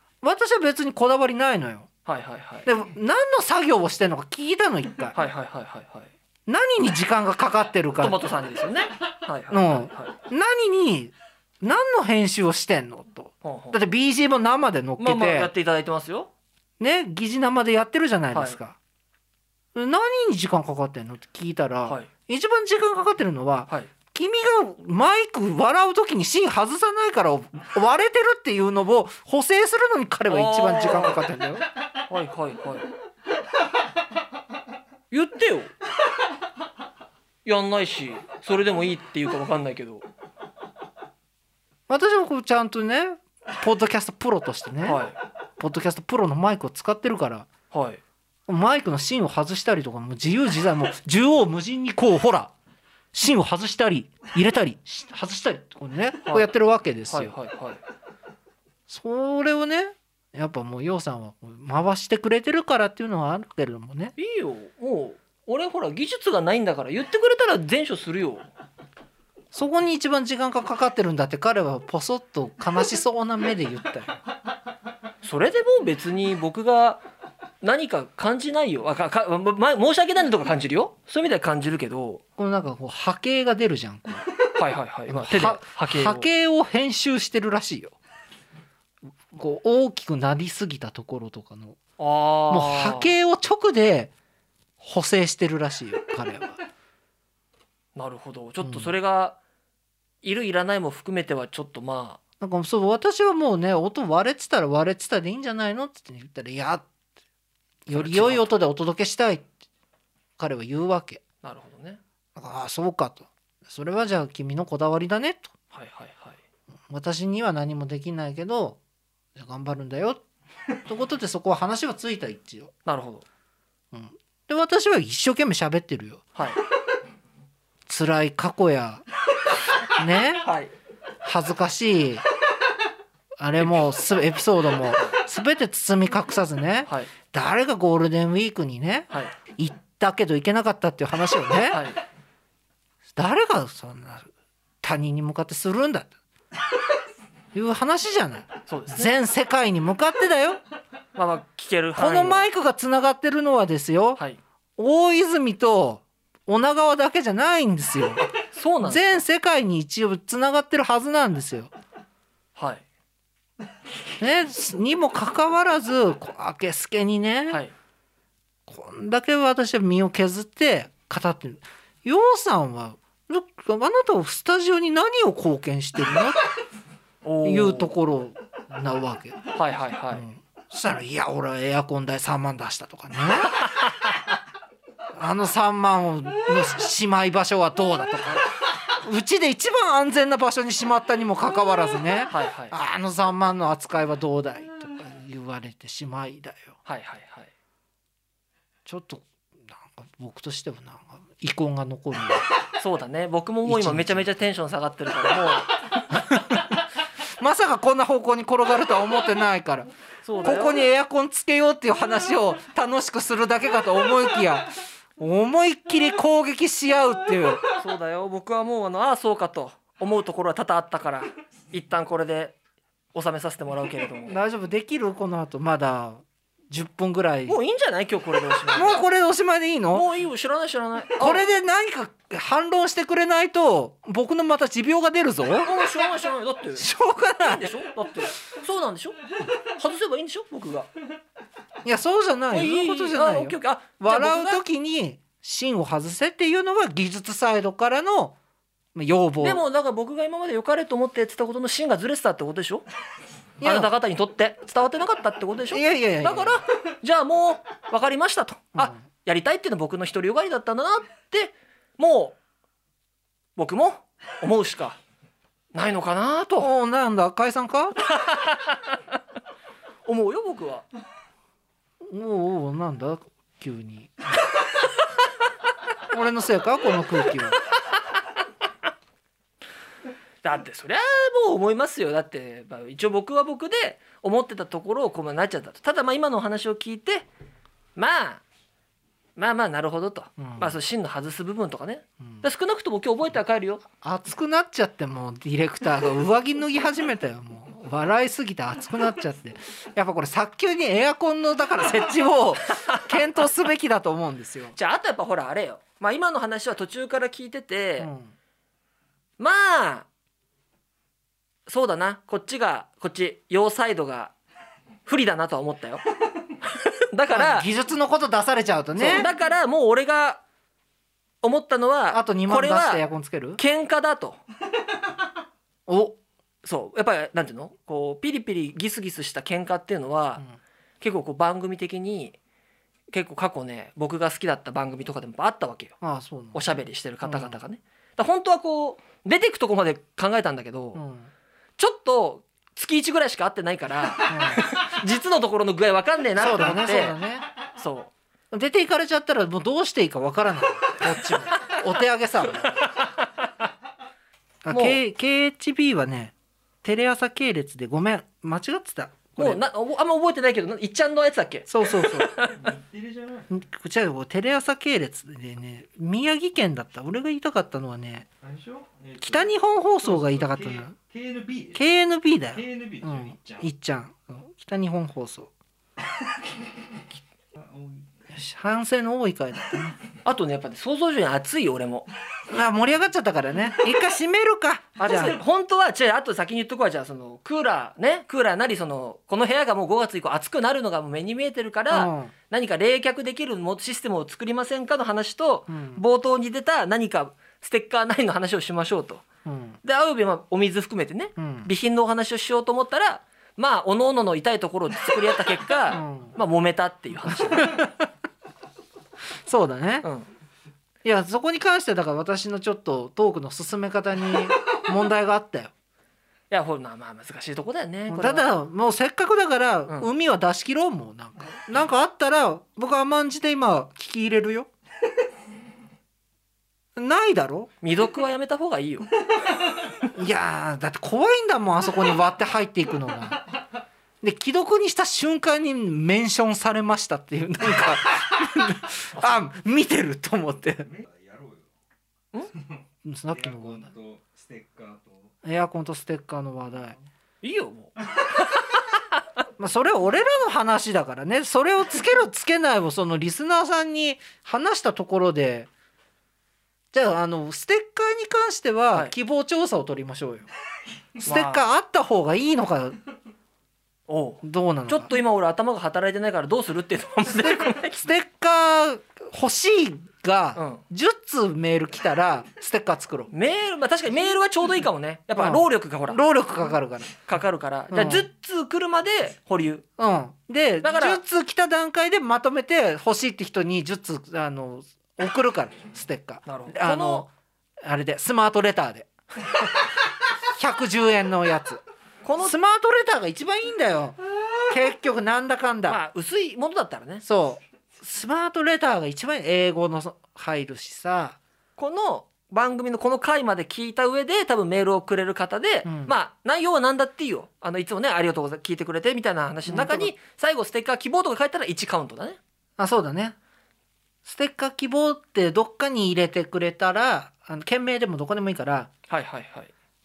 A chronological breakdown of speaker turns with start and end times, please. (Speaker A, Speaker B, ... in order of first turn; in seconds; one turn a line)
Speaker A: 0.2-1.9
Speaker B: 2.0-2.7
Speaker A: 2.6-5.2
Speaker B: 5.1-6.1
Speaker A: 6.5-8.2
Speaker B: 8.0-10.2
Speaker A: 9.5-15.5
Speaker B: 13.4-13.8
Speaker B: 15.0-16.3
Speaker A: 16.8-18.8
Speaker B: 18.3-18.6
Speaker A: 19.7-31.6
Speaker B: 30.3-31.2
Speaker B: 32.1-32.9
Speaker B: 35.1-35.7
Speaker B: 37.4-40.0
Speaker A: 41.9-45.0
Speaker B: 44.8-45.1
Speaker A: 45.6-47.5
Speaker B: 47.7-48.0
Speaker A: 48.5-52.5
Speaker A: 53.1-57.3
Speaker B: 57.1-57.8
Speaker A: 58.9-64.1
Speaker B: 64.2-68.5
Speaker A: 69.5-74.2
Speaker B: 75.2-77.0
Speaker B: 77.6-82.2
Speaker A: 82.4-84.2
Speaker B: 84.5-86.3
Speaker A: 85.1-88.0
Speaker A: 89.3-91.8
Speaker B: 92.0-93.1
Speaker A: 92.5-94.1
Speaker A: 94.8-96.6
Speaker B: 98.0-99.4
Speaker A: 98.6-98.9
Speaker B: 100.2-102.2
Speaker A: 102.4-106.9
Speaker A: 107.8-109.5
Speaker B: 107.9-108.5
Speaker A: 110.4-111.2
Speaker B: 111.4-112.0
Speaker A: 112.3-115.5
Speaker B: 115.7-116.4
Speaker A: 116.9-118.8
Speaker A: 119.3-120.2
Speaker A: 120.8-122.7
Speaker B: 122.8-123.2
Speaker A: 123.9-126.2
Speaker A: 127.9-129.0
Speaker A: 129.9-130.5
Speaker B: 130.4-130.7
Speaker A: 131.2-132.2
Speaker A: 133.4-141.9
Speaker B: 141.7-142.0
Speaker A: 143.1-144.3
Speaker A: 144.8-146.1
Speaker A: 147.5-150.6
Speaker B: 148.7-149.1
Speaker B: 151.1-152.5
Speaker A: 152.0-154.2
Speaker A: 154.8-158.3
Speaker B: 158.5-159.2
Speaker A: 158.8-161.7
Speaker B: 162.6-162.8
Speaker A: 164.2-167.6
Speaker A: 168.7-176.4
Speaker B: 177.2-177.9
Speaker A: 177.4-179.4
Speaker B: 179.5-180.2
Speaker A: 180.1-183.7
Speaker B: 183.8-184.1
Speaker A: 185.1-196.8
Speaker B: 192.3-192.7
Speaker B: 196.8-197.5
Speaker A: 198.8-202.5
Speaker B: 202.8-206.0
Speaker A: 203.6-204.3
Speaker A: 206.1-206.8
Speaker A: 207.4-209.9
Speaker B: 210.2-210.8
Speaker A: 210.4-217.6
Speaker B: 217.7-222.6
Speaker B: 223.1-224.4
Speaker A: 224.3-227.6
Speaker B: 227.5-229.0
Speaker A: 228.7-230.1
Speaker B: 229.9-231.4
Speaker A: 231.2-235.7
Speaker B: 235.6-236.9
Speaker A: 236.8-237.7
Speaker B: 237.4-240.9
Speaker A: 241.8-248.3
Speaker B: 242.5-244.6
Speaker A: 248.9-249.6
Speaker B: 249.4-252.8
Speaker A: 253.6-253.9
Speaker B: 253.6-262.4
Speaker A: 255.7-256.6
Speaker B: 263.6-265.0
Speaker B: 265.7-266.7
Speaker A: 266.6-268.0
Speaker B: 268.0-268.9
Speaker B: 270.1-270.9
Speaker A: 272.1-274.1
Speaker A: 276.1-277.6
Speaker B: 280.4-287.3
Speaker B: 287.9-288.4
Speaker B: 289.4-293.8
Speaker A: 290.4-290.8
Speaker A: 294.0-304.7
Speaker B: 302.8-303.1
Speaker B: 304.7-308.1
Speaker A: 308.0-308.3
Speaker B: 309.4-310.1
Speaker B: 311.7-314.3
Speaker B: 315.1-316.0
Speaker B: 316.6-317.7
Speaker A: 317.3-319.3
Speaker B: 318.9-320.4
Speaker B: 321.4-323.0
Speaker A: 322.1-323.6
Speaker B: 323.6-324.4
Speaker A: 325.9-326.2
Speaker B: 326.6-330.4
Speaker B: 331.0-332.4
Speaker B: 333.1-335.9
Speaker A: 336.0-337.6
Speaker B: 336.5-341.0
Speaker A: 340.9-341.3
Speaker B: 341.8-347.2
Speaker A: 344.2-344.7
Speaker A: 346.4-347.4
Speaker B: 347.7-348.1
Speaker A: 348.5-352.8
Speaker B: 352.8-353.4
Speaker A: 354.6-359.6
Speaker B: 354.7-355.0
Speaker B: 359.4-362.6
Speaker A: 361.7-362.4
Speaker C: 362.4-363.5
Speaker A: 363.5-368.3
Speaker C: 368.4-371.8
Speaker A: 369.2-370.9
Speaker A: 371.7-375.5
Speaker C: 372.5-373.7
Speaker C: 377.5-378.2
Speaker A: 378.3-379.9
Speaker B: 380.2-382.1
Speaker A: 382.5-385.4
Speaker B: 385.0-399.2
Speaker A: 391.9-392.3
Speaker A: 395.7-396.0
Speaker A: 399.4-399.8
Speaker B: 399.8-407.8
Speaker A: 401.4-401.7
Speaker A: 405.9-406.4
Speaker A: 407.6-407.9
Speaker A: 409.4-410.1
Speaker B: 410.0-410.3
Speaker A: 411.0-415.7
Speaker B: 416.5-418.5
Speaker A: 418.1-424.7
Speaker A: 426.9-427.7
Speaker B: 427.8-429.1
Speaker A: 430.1-433.4
Speaker A: 434.2-440.9
Speaker C: 440.8-441.7
Speaker C: 442.5-442.8
Speaker A: 443.0-443.9
Speaker C: 443.3-445.3
Speaker A: 445.4-447.0
Speaker B: 447.4-447.9
Speaker B: 448.5-449.0
Speaker A: 449.6-455.7
Speaker A: 456.9-460.5
Speaker A: 461.2-463.0
Speaker B: 461.2-461.7
Speaker B: 464.1-468.0
Speaker A: 464.4-465.1
Speaker A: 467.2-473.3
Speaker B: 470.6-470.8
Speaker B: 473.3-476.2
Speaker A: 475.3-477.2
Speaker B: 477.3-479.8
Speaker A: 477.9-478.3
Speaker A: 480.0-487.3
Speaker B: 480.8-481.2
Speaker B: 486.4-487.2
Speaker A: 487.8-489.1
Speaker A: 490.4-491.8
Speaker B: 492.2-492.5
Speaker A: 492.4-496.0
Speaker B: 495.9-497.2
Speaker A: 497.2-501.4
Speaker B: 501.8-512.4
Speaker A: 505.8-506.1
Speaker A: 509.6-510.1
Speaker A: 512.8-513.3
Speaker A: 514.2-518.9
Speaker B: 519.1-519.7